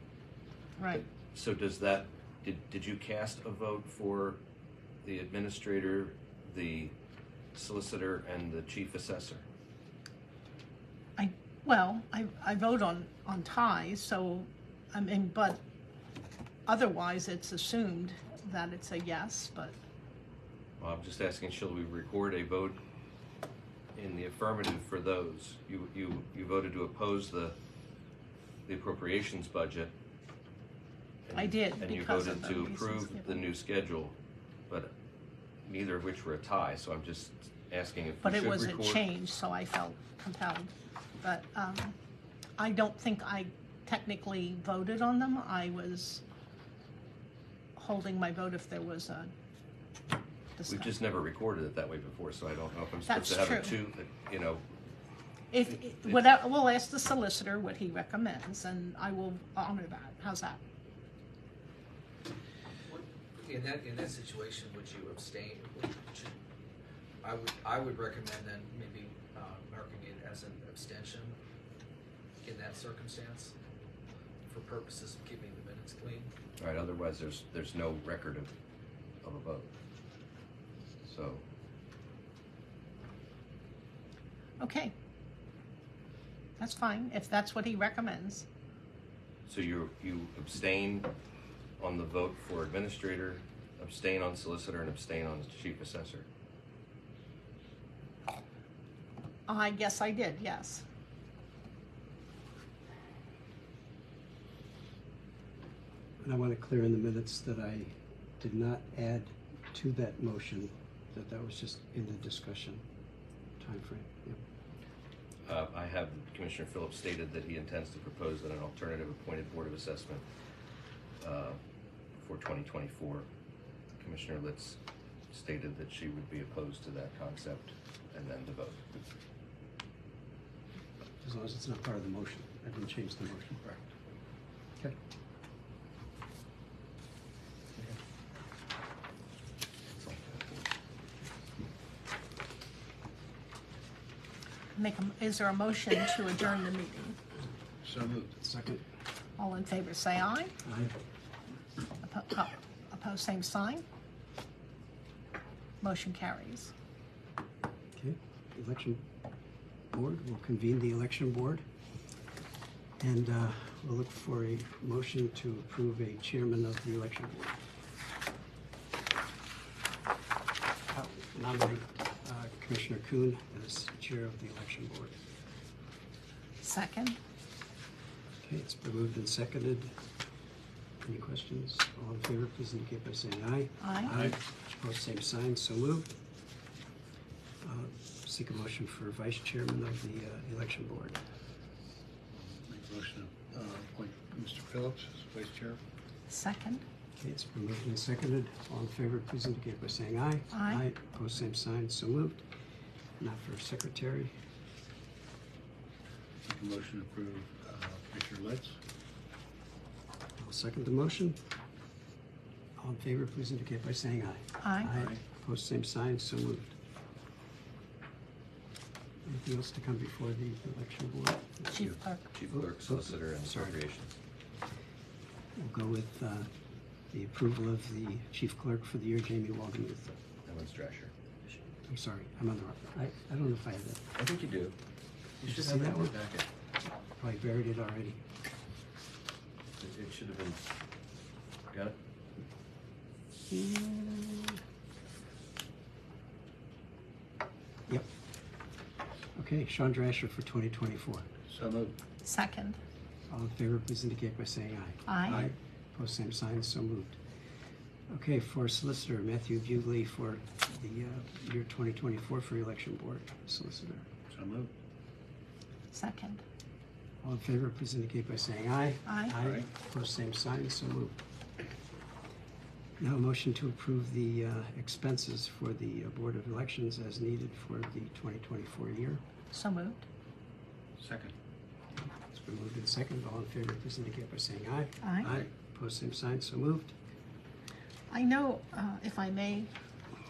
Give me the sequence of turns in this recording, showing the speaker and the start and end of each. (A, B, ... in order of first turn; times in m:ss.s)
0:00.8-0:01.0 A
0:00.9-0:04.4 B
0:05.0-0:06.9 B
0:07.5-0:09.4 B
0:11.2-0:15.6 A
0:16.7-0:19.8 A
0:20.8-0:22.8 B
0:24.0-0:27.6 B
0:28.7-0:29.9 B
0:31.3-0:34.2 B
0:31.3-0:33.4 A
0:35.6-0:39.0 B
0:38.2-0:42.0 A
0:42.6-0:46.2 A
0:47.8-0:49.3 A
0:50.6-0:50.9 A
0:50.6-0:54.6 B
0:53.1-0:53.8 A
0:55.5-1:00.6 A
0:55.7-0:56.2 B
1:02.9-1:06.3 C
1:07.2-1:11.4 C
1:12.4-1:13.5 C
1:14.5-1:16.3 C
1:16.6-1:18.5 B
1:19.2-1:19.7 B
1:21.0-1:21.4 B
1:24.6-1:24.9 A
1:26.6-1:28.4 A
1:29.5-1:31.1 B
1:31.8-1:36.3 B
1:39.5-1:40.8 A
1:46.2-1:52.8 D
1:53.6-1:54.4 D
1:55.4-2:00.2 B
2:01.2-2:01.6 B
2:02.2-2:03.3 B
2:04.0-2:04.8 B
2:05.3-2:08.8 B
2:11.2-2:13.8 D
2:19.9-2:20.7 B
2:24.8-2:27.2 A
2:27.8-2:28.4 E
2:28.4-2:28.8 D
2:29.4-2:30.5 A
2:30.6-2:30.9 D
2:32.0-2:33.8 A
2:35.8-2:36.7 A
2:38.0-2:39.0 D
2:39.9-2:41.6 D
2:43.0-2:47.6 D
2:50.9-2:55.1 D
2:56.6-2:57.2 A
2:58.4-2:59.9 D
3:01.0-3:06.1 D
3:03.8-3:04.1 A
3:07.6-3:11.2 D
3:12.3-3:15.8 E
3:16.3-3:16.8 A
3:17.2-3:22.4 D
3:20.5-3:20.8 A
3:23.2-3:24.3 D
3:26.4-3:28.8 E
3:30.4-3:31.4 D
3:32.8-3:36.7 D
3:34.6-3:34.9 A
3:34.9-3:35.2 E
3:39.2-3:41.9 D
3:41.7-3:42.3 A
3:42.3-3:44.2 B
3:42.5-3:43.8 D
3:45.6-3:46.5 D
3:47.1-3:50.2 D
3:50.4-3:51.5 B
3:51.9-3:54.0 D
3:54.1-3:54.8 B
3:55.4-3:56.5 B
3:55.4-3:56.2 D
3:57.1-3:58.2 D
3:59.8-4:00.6 B
4:01.7-4:02.0 B
4:03.5-4:04.5 D
4:09.4-4:11.3 D
4:11.5-4:12.0 E
4:12.2-4:12.8 A
4:13.3-4:17.2 D
4:15.0-4:15.4 A
4:18.1-4:24.1 D
4:24.3-4:24.7 E
4:25.9-4:26.4 A
4:27.2-4:31.2 D
4:29.0-4:29.4 A
4:29.4-4:29.7 E
4:33.0-4:39.2 D
4:39.5-4:40.0 A
4:41.0-4:41.3 E
4:42.1-4:46.9 D
4:45.0-4:45.3 A
4:48.1-4:49.7 A